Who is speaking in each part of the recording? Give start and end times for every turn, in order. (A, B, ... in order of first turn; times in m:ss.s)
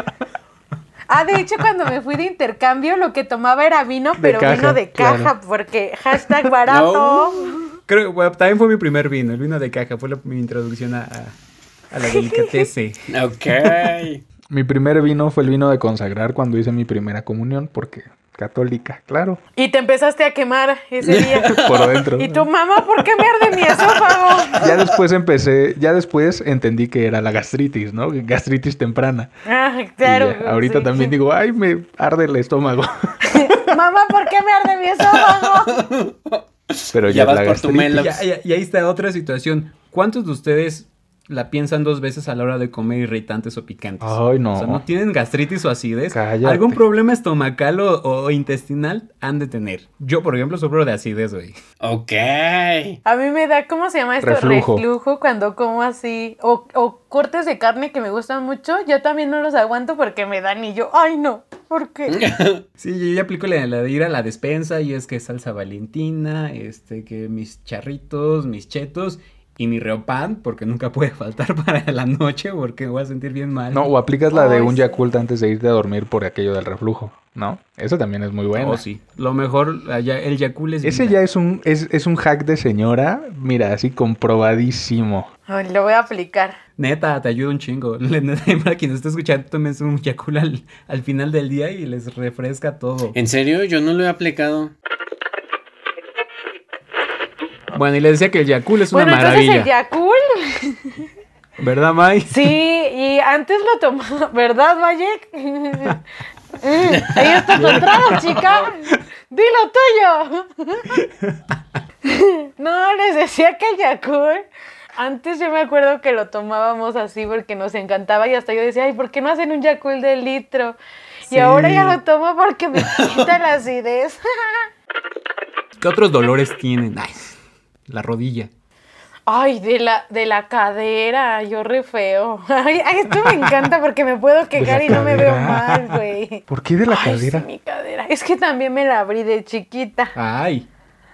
0:01.1-0:07.8 A
0:04.2-0:05.3 B
0:06.7-0:07.6 C
0:07.9-0:11.4 D
0:11.9-0:13.0 D
0:12.1-0:12.7 A
0:13.1-0:14.2 C
0:14.5-0:19.4 B
0:19.6-0:24.7 A
0:21.0-0:22.0 C
0:21.5-0:22.5 B
0:23.5-0:24.9 C
0:24.6-0:29.3 B
0:29.5-0:31.1 A
0:30.0-0:33.6 B
0:33.3-0:35.8 A
0:35.1-0:38.2 C
0:36.9-0:38.0 B
0:37.9-0:51.6 D
0:44.0-0:44.8 B
0:46.1-0:46.8 B
0:51.8-0:53.0 C
0:53.0-1:02.2 A
0:54.2-0:54.8 B
1:02.1-1:02.6 C
1:02.8-1:13.9 D
1:13.7-1:18.8 B
1:14.3-1:15.0 A
1:18.6-1:21.2 D
1:20.8-1:25.3 B
1:25.5-1:26.6 A
1:26.8-1:33.2 D
1:33.1-1:34.7 C
1:37.7-1:39.7 D
1:38.9-1:41.1 A
1:41.6-1:42.5 D
1:42.3-1:46.0 A
1:46.6-1:51.0 A
1:46.9-1:48.3 C
1:47.5-1:48.6 D
1:51.0-1:51.4 D
1:52.0-1:54.4 A
1:55.0-2:04.7 A
2:01.3-2:02.0 D
2:02.8-2:03.3 C
2:05.8-2:07.3 D
2:07.9-2:08.5 D
2:09.3-2:20.1 A
2:14.6-2:15.8 B
2:14.7-2:15.4 D
2:16.5-2:17.5 B
2:20.2-2:20.7 D